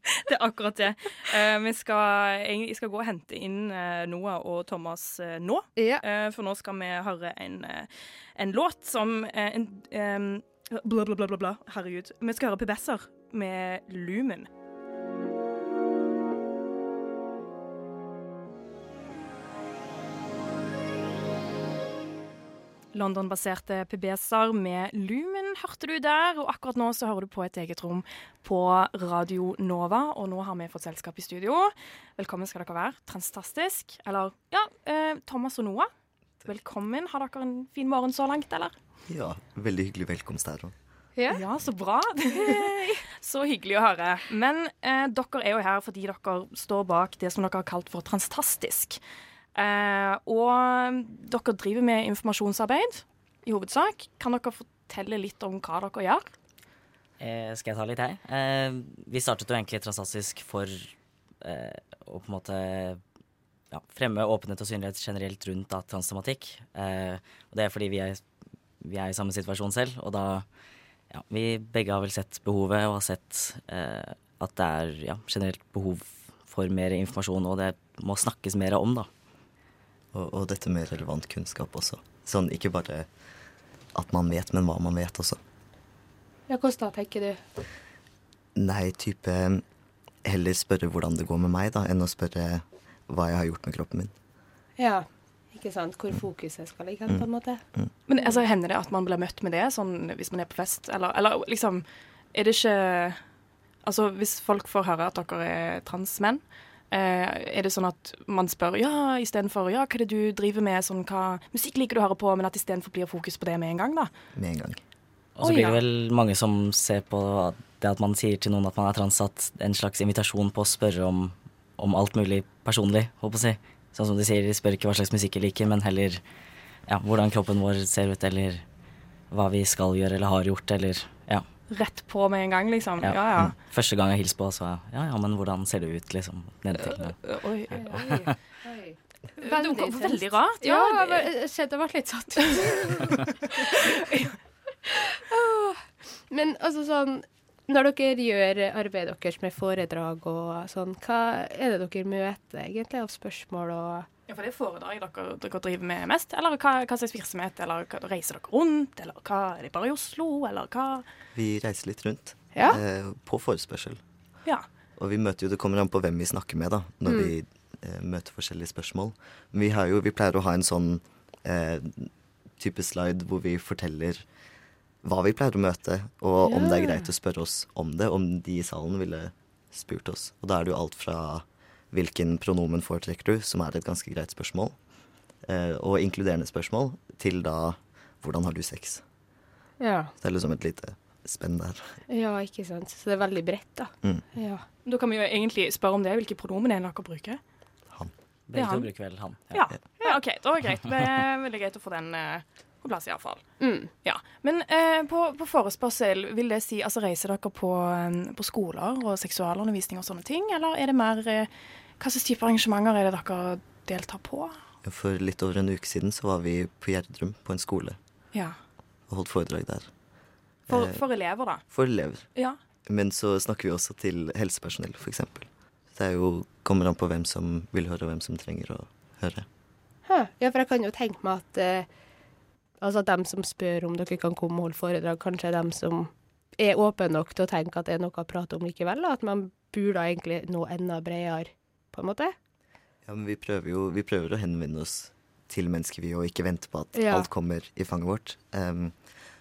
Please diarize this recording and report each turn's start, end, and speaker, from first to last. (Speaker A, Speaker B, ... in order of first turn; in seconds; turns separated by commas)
Speaker A: 0.1-14.5, Speaker B: 5.8-6.0, Speaker A: 22.9-35.9, Speaker A: 36.4-38.8, Speaker C: 39.1-40.8, Speaker B: 41.2-41.4, Speaker A: 41.3-49.0, Speaker A: 49.5-56.3, Speaker D: 57.2-63.0, Speaker D: 63.7-68.2, Speaker D: 68.8-70.5, Speaker D: 71.1-79.1, Speaker C: 80.1-83.1, Speaker C: 83.9-85.4, Speaker B: 86.5-87.4, Speaker C: 88.5-89.6, Speaker C: 90.2-94.1, Speaker B: 94.8-97.6, Speaker C: 97.1-97.9, Speaker A: 98.1-103.2, Speaker A: 103.8-114.1, Speaker C: 114.3-114.8, Speaker D: 115.4-126.2, Speaker A: 115.4-115.8, Speaker D: 126.9-128.6, Speaker D: 129.3-131.4, Speaker A: 131.7-133.5, Speaker D: 133.0-138.3, Speaker A: 136.8-138.3, Speaker B: 138.6-144.0, Speaker A: 139.4-141.3, Speaker A: 144.0-144.2, Speaker B: 144.9-154.1, Speaker A: 154.3-161.1, Speaker C: 161.3-164.0, Speaker B: 162.6-162.8, Speaker C: 165.0-174.2, Speaker B: 167.1-167.3, Speaker C: 175.0-184.8, Speaker B: 176.4-177.1, Speaker C: 185.4-189.0, Speaker B: 189.8-190.1, Speaker C: 190.2-192.0, Speaker B: 192.1-194.6, Speaker A: 194.8-197.4, Speaker D: 198.5-199.7, Speaker A: 198.5-214.6, Speaker B: 203.6-203.9, Speaker C: 214.8-218.0, Speaker C: 219.1-219.9, Speaker C: 220.7-221.1, Speaker A: 220.7-221.7, Speaker C: 221.7-222.3, Speaker C: 222.9-229.4, Speaker B: 230.1-231.9, Speaker B: 232.8-242.3, Speaker C: 243.1-248.9, Speaker B: 246.9-247.3